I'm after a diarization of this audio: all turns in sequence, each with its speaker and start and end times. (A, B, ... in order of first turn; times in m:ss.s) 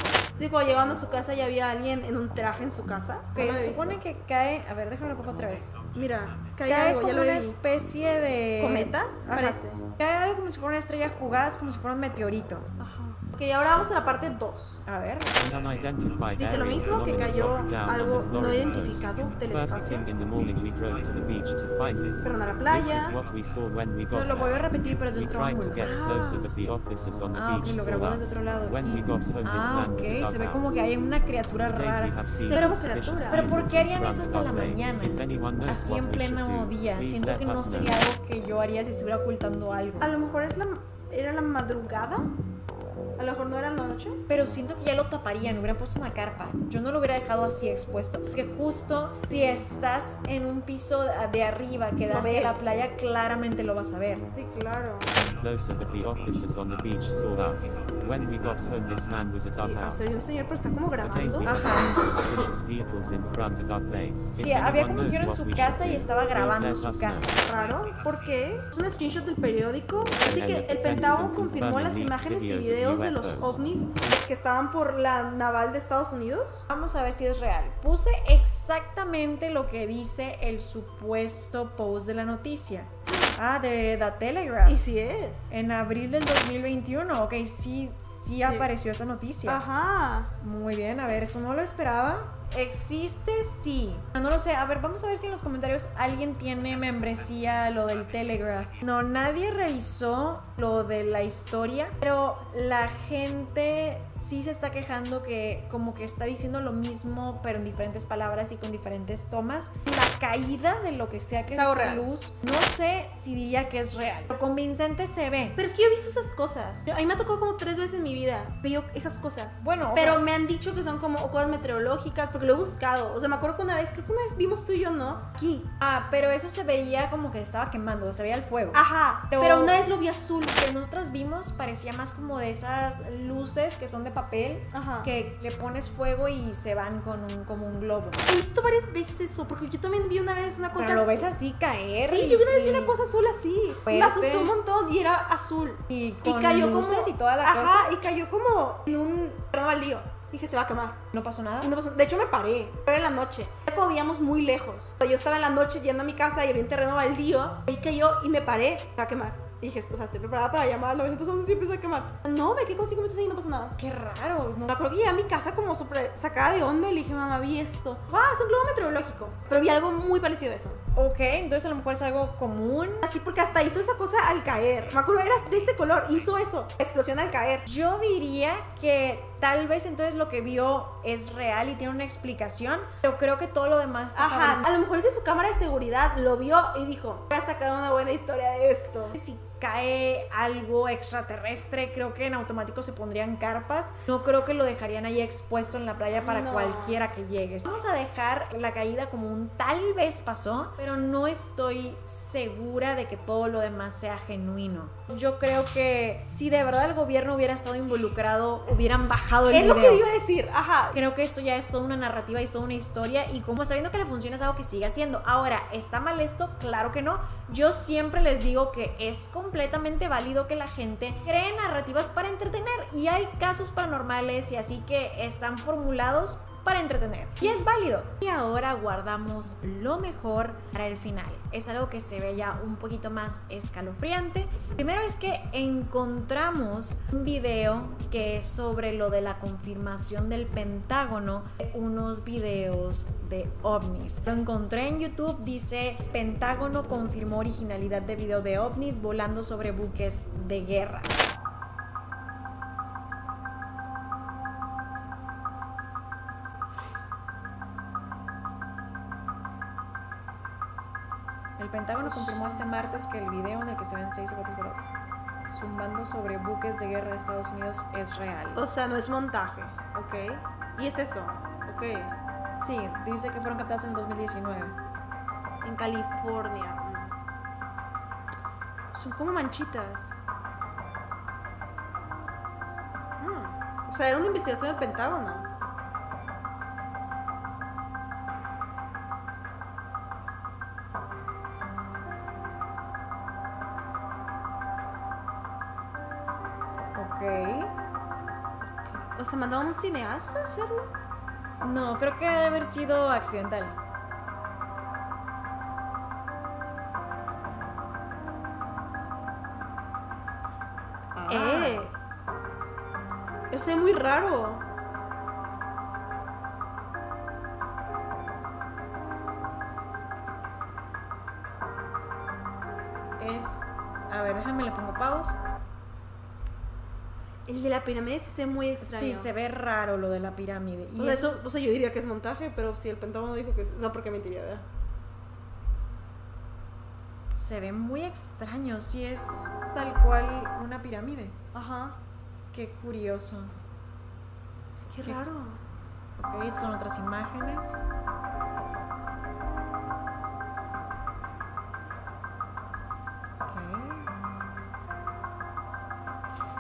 0:00.4-0:04.0 A
0:03.4-0:05.7 B
0:05.9-0:07.6 A
0:06.7-0:12.6 B
0:08.6-0:09.8 A
0:12.8-0:14.8 A
0:14.9-0:15.3 B
0:15.4-0:30.8 C
0:16.4-0:20.1 A
0:22.2-0:23.2 A
0:24.1-0:25.8 B
0:25.8-0:26.5 A
0:27.3-0:40.1 B
0:31.5-0:38.0 C
0:32.4-0:33.5 A
0:40.0-0:42.3 A
0:43.2-0:44.2 A
0:44.3-0:54.2 B
0:52.1-0:52.8 A
0:54.3-0:55.1 A
0:55.1-1:00.2 C
0:59.6-1:01.6 A
1:01.0-1:07.4 C
1:01.5-1:02.1 B
1:04.3-1:07.4 B
1:07.4-1:16.6 A
1:10.2-1:13.6 C
1:16.7-1:24.8 B
1:24.7-1:25.5 A
1:25.5-1:29.6 B
1:28.4-1:28.7 A
1:29.5-1:30.3 A
1:30.4-1:55.6 B
1:51.5-1:52.1 A
1:55.6-2:05.7 A
1:59.6-2:00.2 B
2:05.8-2:09.8 B
2:08.7-2:10.5 A
2:10.5-2:18.2 B
2:14.7-2:15.1 A
2:18.2-2:21.3 A
2:20.8-2:23.0 B
2:21.9-2:31.0 A
2:23.9-2:24.6 B
2:25.9-2:27.9 B
2:31.1-2:31.7 B
2:31.6-2:43.8 A
2:43.8-2:44.8 B
2:44.7-2:50.8 A
2:51.0-2:53.1 B
2:53.0-2:57.6 A
2:57.7-3:04.7 B
3:04.2-3:09.2 A
3:09.1-3:30.0 B
3:16.2-3:17.0 A
3:29.5-3:31.0 A
3:30.9-4:11.2 B
4:21.6-4:24.9 B
4:22.0-4:22.4 A
4:25.5-4:28.6 B
4:28.6-4:32.2 A
4:32.6-4:34.8 B
4:35.6-4:37.2 A
4:38.9-4:40.1 A
4:43.2-4:45.5 A
4:57.0-4:57.7 B
4:58.6-5:00.9 A
5:01.6-5:03.8 B
5:11.2-5:11.9 B
5:11.3-5:11.9 A
5:13.5-5:14.6 A
5:23.2-5:25.4 B
5:27.5-5:29.3 A
5:28.8-5:31.4 B
5:31.0-5:34.6 A
5:37.3-5:41.4 B
5:41.5-5:42.0 A
5:42.5-5:43.5 B
5:44.9-5:45.6 A
5:45.0-5:45.3 B
5:46.2-5:47.8 B
5:53.5-5:54.1 B